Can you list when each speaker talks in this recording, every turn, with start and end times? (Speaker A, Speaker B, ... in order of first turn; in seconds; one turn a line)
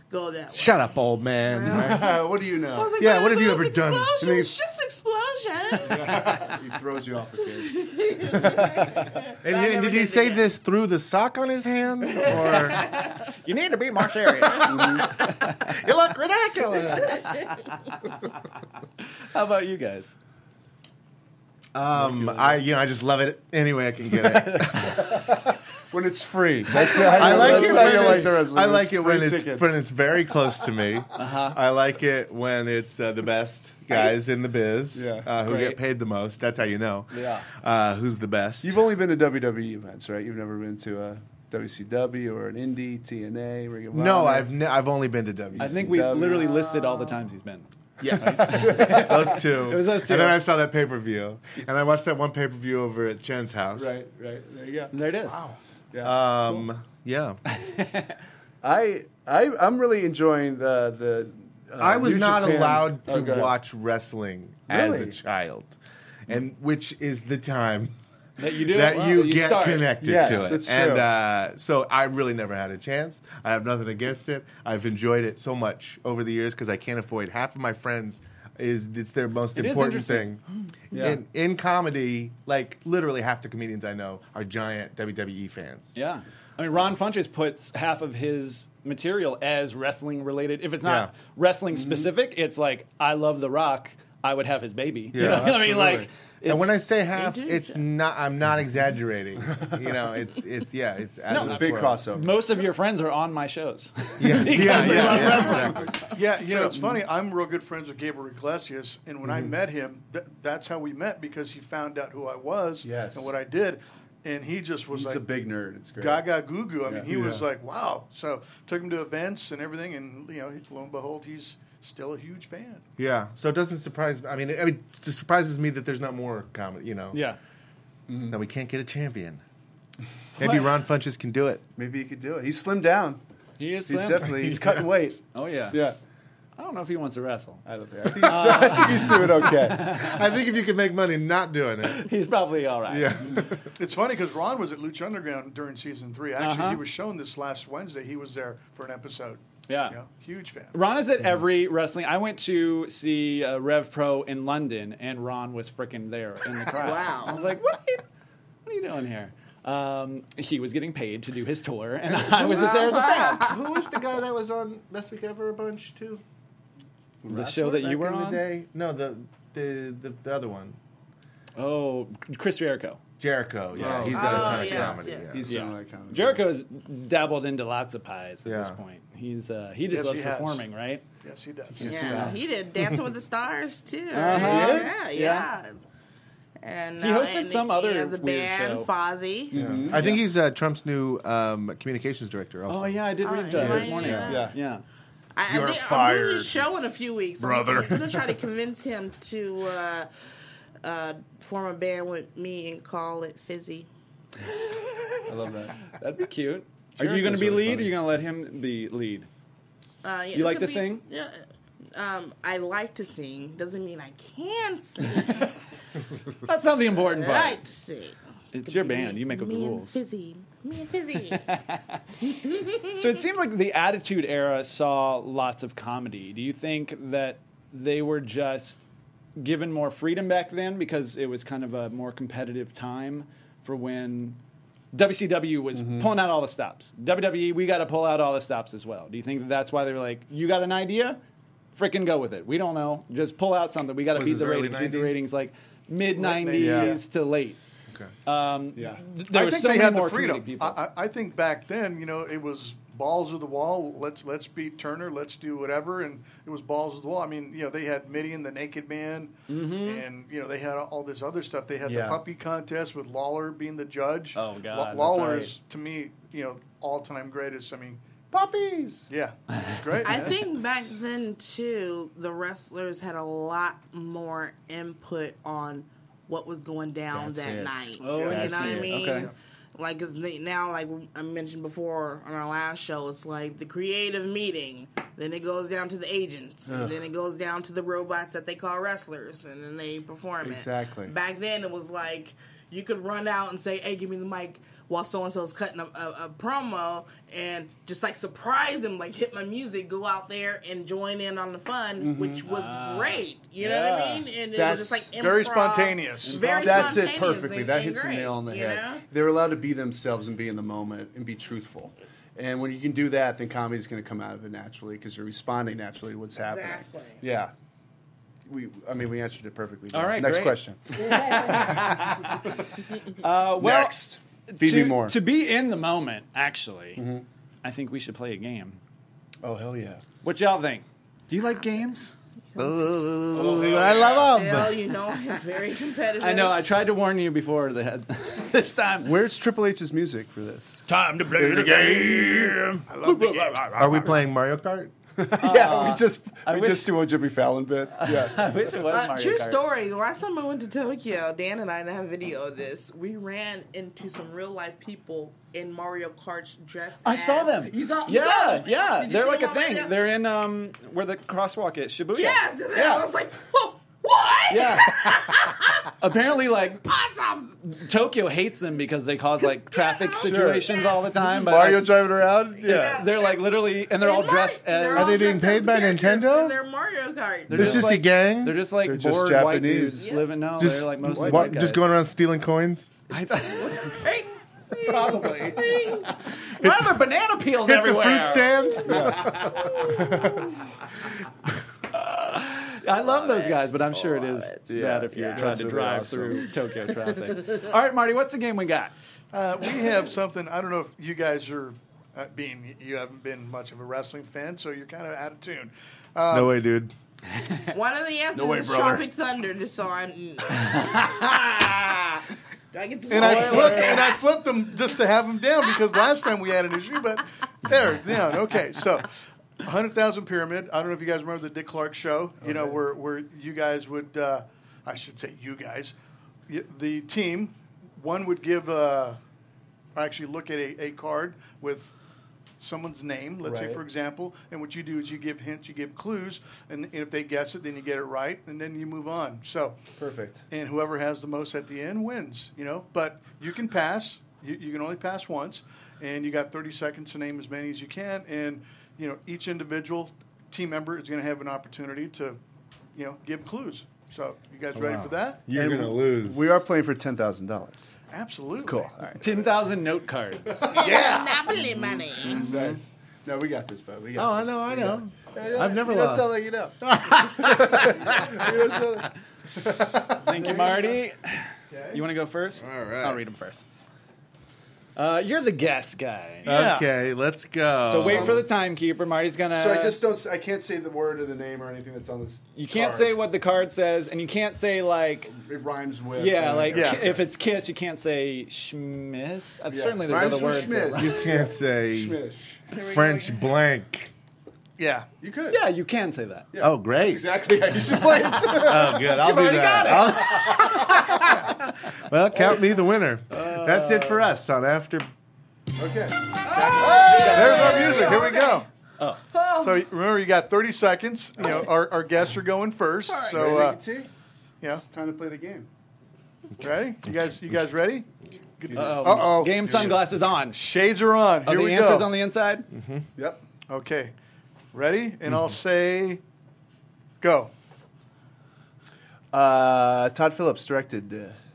Speaker A: 0.1-6.5
Speaker B: 0.5-2.2
Speaker C: 1.7-3.0
Speaker B: 3.0-4.2
Speaker C: 4.2-4.5
Speaker C: 5.8-9.1
Speaker A: 7.5-10.5
Speaker B: 9.4-12.9
Speaker A: 12.1-13.2
Speaker D: 13.2-15.6
Speaker C: 14.6-15.1
Speaker B: 15.6-17.4
Speaker A: 17.2-17.4
Speaker D: 19.3-20.1
Speaker B: 21.7-25.3
Speaker C: 21.9-22.6
Speaker C: 24.1-29.8
Speaker D: 26.7-28.4
Speaker B: 26.9-38.8
Speaker D: 31.2-31.6
Speaker C: 34.9-35.3
Speaker D: 35.4-35.8
Speaker D: 37.1-37.5
Speaker C: 38.6-44.5
Speaker B: 43.9-46.1
Speaker C: 45.6-46.6
Speaker D: 45.6-47.7
Speaker A: 46.4-47.2
Speaker B: 48.0-54.0
Speaker C: 48.1-49.4
Speaker D: 48.2-50.4
Speaker C: 53.8-54.9
Speaker D: 54.9-55.4
Speaker E: 55.3-55.6
Speaker C: 55.9-56.2
Speaker B: 56.0-57.4
Speaker D: 57.5-58.2
Speaker C: 58.6-63.5
Speaker B: 61.8-68.0
Speaker C: 64.7-65.2
Speaker D: 68.4-70.5
Speaker B: 68.5-86.0
Speaker C: 70.0-71.1
Speaker D: 79.5-80.3
Speaker C: 80.9-81.2
Speaker D: 86.0-96.9
Speaker B: 90.8-91.1
Speaker C: 91.7-92.1
Speaker B: 95.1-102.0
Speaker C: 95.2-95.8
Speaker A: 97.1-97.8
Speaker C: 101.3-102.4
Speaker D: 101.3-106.0
Speaker B: 104.2-105.9
Speaker C: 104.6-105.9
Speaker E: 106.1-115.2
Speaker C: 106.5-107.0
Speaker C: 109.2-109.6
Speaker C: 112.8-113.3
Speaker C: 114.9-116.3
Speaker E: 116.0-122.8
Speaker C: 116.8-117.4
Speaker B: 123.0-127.2
Speaker D: 127.1-127.4
Speaker C: 128.1-128.4
Speaker B: 128.3-129.4
Speaker B: 130.4-131.6
Speaker D: 130.4-130.7
Speaker C: 131.8-133.2
Speaker D: 133.6-134.7
Speaker C: 133.9-135.2
Speaker D: 135.3-135.8
Speaker C: 135.7-136.0
Speaker D: 136.6-140.3
Speaker C: 137.7-140.0
Speaker B: 139.8-142.0
Speaker D: 141.8-143.3
Speaker B: 142.9-143.7
Speaker E: 143.8-150.8
Speaker D: 146.4-146.8
Speaker D: 149.7-150.0
Speaker D: 150.7-158.0
Speaker A: 156.8-157.5
Speaker D: 158.7-163.5
Speaker B: 162.1-166.2
Speaker A: 162.5-163.6
Speaker C: 167.2-167.6
Speaker D: 167.3-168.4
Speaker B: 167.6-170.8
Speaker D: 171.6-173.0
Speaker B: 173.2-175.6
Speaker C: 173.7-176.4
Speaker A: 174.1-175.3
Speaker D: 175.4-181.0
Speaker B: 178.4-178.8
Speaker E: 179.9-180.7
Speaker E: 181.2-182.3
Speaker C: 181.7-182.4
Speaker A: 181.8-185.8
Speaker D: 184.1-185.5
Speaker C: 184.3-184.9
Speaker A: 186.6-189.8
Speaker D: 187.0-188.9
Speaker C: 189.5-190.1
Speaker B: 189.5-193.0
Speaker D: 189.9-190.2
Speaker D: 192.7-194.8
Speaker A: 193.2-194.5
Speaker C: 193.5-194.6
Speaker B: 193.6-194.3
Speaker A: 195.3-200.1
Speaker B: 195.5-196.4
Speaker C: 195.6-196.3
Speaker C: 197.4-198.2
Speaker A: 200.8-203.9
Speaker C: 205.3-205.9
Speaker D: 205.9-209.3
Speaker C: 207.0-208.0
Speaker A: 210.0-211.4
Speaker D: 210.3-211.0
Speaker A: 211.9-215.5
Speaker D: 216.4-217.6
Speaker A: 217.0-221.4
Speaker D: 218.5-220.0
Speaker D: 221.2-222.0
Speaker A: 222.2-223.1
Speaker D: 222.9-228.8
Speaker D: 229.4-234.4
Speaker D: 234.9-241.2
Speaker C: 235.7-236.1
Speaker D: 241.8-247.6
Speaker B: 244.1-245.2
Speaker E: 246.1-247.0
Speaker C: 246.6-247.0
Speaker D: 248.3-250.8
Speaker C: 248.8-249.0
Speaker E: 249.2-268.0
Speaker D: 259.5-260.0
Speaker C: 261.8-262.2
Speaker D: 264.4-265.5
Speaker C: 268.3-269.1
Speaker E: 269.1-270.5
Speaker D: 269.5-269.9
Speaker A: 270.0-309.0
Speaker C: 277.1-277.7
Speaker D: 278.0-279.3
Speaker E: 278.1-279.3
Speaker C: 278.4-278.7
Speaker C: 286.7-287.0
Speaker C: 290.4-291.1
Speaker C: 302.0-302.4
Speaker D: 302.4-304.2
Speaker C: 304.6-305.1
Speaker E: 305.1-306.4
Speaker D: 306.2-307.4
Speaker C: 306.6-317.5
Speaker A: 316.4-317.2
Speaker C: 318.4-322.1
Speaker D: 319.9-322.5
Speaker A: 321.1-321.6
Speaker D: 323.2-324.0
Speaker C: 323.6-325.2
Speaker D: 324.5-327.1
Speaker C: 326.9-327.3
Speaker D: 327.6-328.8
Speaker C: 329.4-330.0
Speaker D: 330.2-332.1
Speaker B: 332.6-334.8
Speaker E: 333.3-334.2
Speaker A: 333.7-336.6
Speaker D: 336.2-339.2
Speaker C: 339.0-340.8
Speaker D: 340.9-344.0
Speaker C: 341.3-342.6
Speaker E: 342.9-343.7
Speaker B: 343.8-344.9
Speaker C: 345.2-348.4
Speaker D: 345.4-347.0
Speaker D: 347.9-349.6
Speaker A: 348.9-360.0
Speaker D: 357.0-363.1
Speaker A: 362.1-365.9
Speaker D: 364.5-366.8
Speaker A: 366.8-367.6
Speaker D: 367.7-375.4
Speaker A: 369.7-370.9
Speaker C: 370.2-373.0
Speaker A: 372.6-377.8
Speaker B: 374.9-376.6
Speaker D: 377.5-381.9
Speaker B: 377.5-378.6
Speaker C: 378.8-380.1
Speaker A: 380.0-380.3
Speaker B: 380.6-382.9
Speaker C: 381.1-381.6
Speaker D: 383.1-384.1
Speaker A: 383.7-386.1
Speaker D: 384.8-390.4
Speaker B: 386.6-387.0
Speaker B: 387.6-390.4
Speaker C: 388.9-389.4
Speaker D: 391.9-398.9
Speaker A: 393.2-393.6
Speaker A: 394.1-394.5
Speaker C: 394.7-396.5
Speaker A: 395.2-395.6
Speaker E: 399.3-406.6
Speaker B: 406.3-406.9
Speaker A: 407.7-414.2
Speaker C: 408.3-409.1
Speaker E: 413.1-419.1
Speaker D: 413.1-414.1
Speaker E: 419.6-425.9
Speaker C: 422.4-422.9
Speaker E: 426.5-429.2
Speaker E: 429.9-431.9
Speaker E: 432.6-439.8
Speaker C: 433.4-433.8
Speaker C: 440.0-440.4
Speaker E: 440.5-452.4
Speaker E: 452.9-455.4
Speaker B: 454.8-456.5
Speaker C: 455.5-457.8
Speaker E: 458.1-458.9
Speaker C: 458.6-459.5
Speaker D: 459.2-460.7
Speaker C: 460.6-471.0
Speaker A: 460.7-462.5
Speaker D: 462.3-462.8
Speaker B: 464.1-468.4
Speaker D: 470.2-473.6
Speaker C: 471.7-472.0
Speaker B: 472.6-473.2
Speaker D: 474.9-476.6
Speaker E: 476.4-476.9
Speaker B: 476.4-478.4
Speaker D: 477.9-480.0
Speaker C: 477.9-478.5
Speaker C: 479.5-483.1
Speaker D: 482.6-485.3
Speaker C: 485.3-487.2
Speaker D: 486.2-491.2
Speaker E: 486.7-487.1
Speaker C: 489.7-492.6
Speaker B: 490.9-492.2
Speaker A: 492.7-493.4
Speaker B: 492.8-494.1
Speaker E: 494.8-495.1
Speaker C: 495.2-495.6
Speaker D: 495.5-496.5
Speaker C: 496.5-499.1
Speaker B: 496.6-497.3
Speaker B: 498.5-505.1
Speaker D: 498.9-500.7
Speaker D: 503.3-504.3
Speaker C: 505.8-508.3
Speaker A: 506.4-508.6
Speaker D: 507.2-508.0
Speaker E: 507.3-508.7
Speaker A: 509.3-509.9
Speaker E: 509.6-513.8
Speaker A: 513.1-513.5
Speaker C: 513.3-514.1
Speaker C: 514.7-515.7
Speaker E: 516.6-518.1
Speaker E: 518.6-522.1
Speaker C: 518.7-519.9
Speaker D: 518.8-520.6
Speaker D: 521.5-522.7
Speaker B: 522.7-523.0
Speaker C: 523.2-523.4
Speaker E: 523.7-524.1
Speaker E: 524.7-526.2
Speaker E: 527.2-527.5
Speaker C: 529.3-531.4